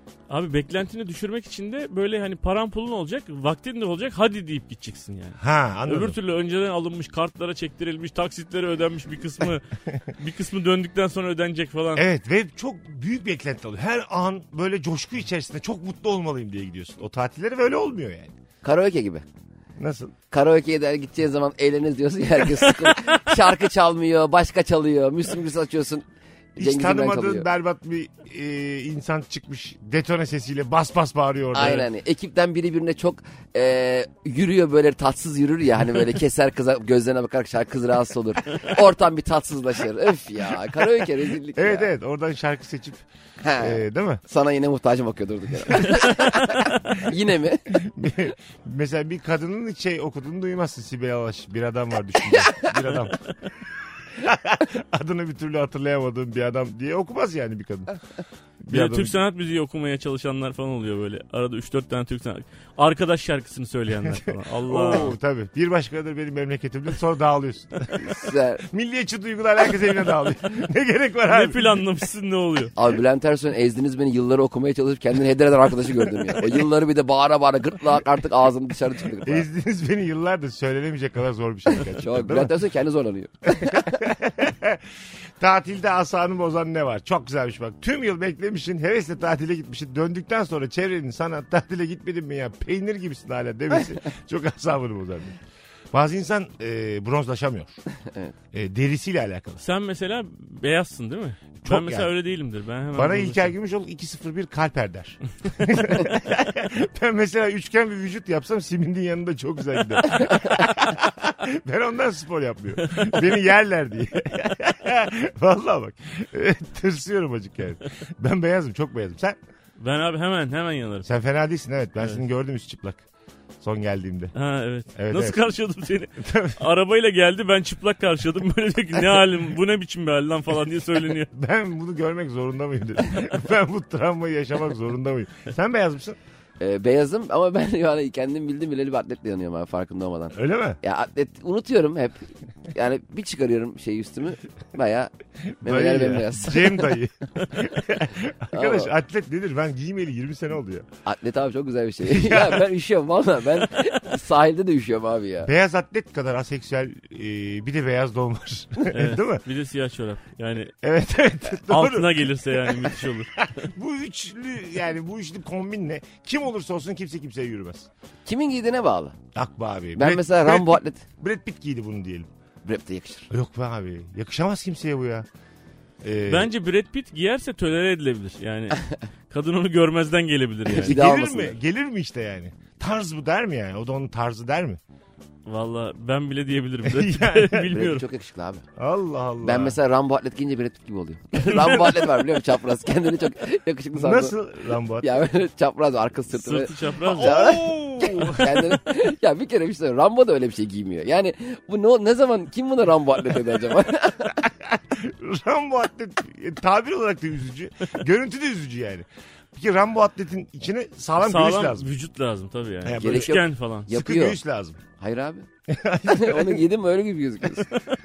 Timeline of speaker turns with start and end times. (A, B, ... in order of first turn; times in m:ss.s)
0:00.3-0:12.0 A
0:05.4-0:06.2 B
0:12.0-0:18.3 B
0:18.6-0:19.2 C
0:19.8-0:20.1 B
0:20.3-0:26.0 C
0:26.6-0:31.9 B
0:26.6-0:27.5 C
0:31.5-0:41.9 C
0:41.6-0:43.0 B
0:43.4-0:47.8 C
0:43.6-0:44.2 B
0:45.8-0:46.5 B
0:47.7-0:53.2 B
0:54.1-0:58.0 B
0:58.6-0:59.2 B
0:58.7-1:05.1 A
1:04.6-1:11.8 B
1:08.0-1:08.6 C
1:11.3-1:12.7 A
1:12.8-1:19.5 C
1:19.2-1:22.5 B
1:21.8-1:24.0 C
1:23.5-1:24.8 B
1:25.4-1:35.4 B
1:35.9-1:37.7 B
1:38.5-1:39.6 B
1:39.6-1:43.5 A
1:41.6-1:42.1 B
1:42.9-1:59.4 B
1:59.8-2:01.1 A
2:01.0-2:03.0 B
2:03.6-2:04.3 B
2:04.3-2:11.3 A
2:04.9-2:05.4 B
2:06.2-2:06.6 B
2:11.3-2:16.2 B
2:16.6-2:27.0 C
2:20.3-2:20.8 B
2:25.6-2:30.9 B
2:28.5-2:28.9 C
2:31.0-2:35.5 C
2:32.0-2:32.7 B
2:35.4-2:39.4 B
2:38.9-2:40.7 A
2:40.8-2:47.9 B
2:41.7-2:43.5 A
2:48.2-2:49.2 C
2:49.3-2:52.3 B
2:50.0-2:51.0 C
2:52.6-2:53.3 C
2:53.3-2:55.2 B
2:56.0-2:56.5 B
2:56.3-3:01.0 A
3:00.7-3:01.6 C
3:00.8-3:04.8 B
3:05.4-3:08.0 A
3:06.8-3:07.7 B
3:07.7-3:08.6 C
3:08.8-3:09.8 B
3:09.4-3:14.4 C
3:14.0-3:15.2 B
3:15.0-3:24.4 C
3:16.3-3:17.4 A
3:17.1-3:18.7 B
3:24.4-3:31.9 B
3:31.2-3:33.9 A
3:32.8-3:34.8 B
3:33.0-3:34.4 C
3:35.0-3:35.5 C
3:35.7-3:36.6 B
3:36.0-3:37.7 C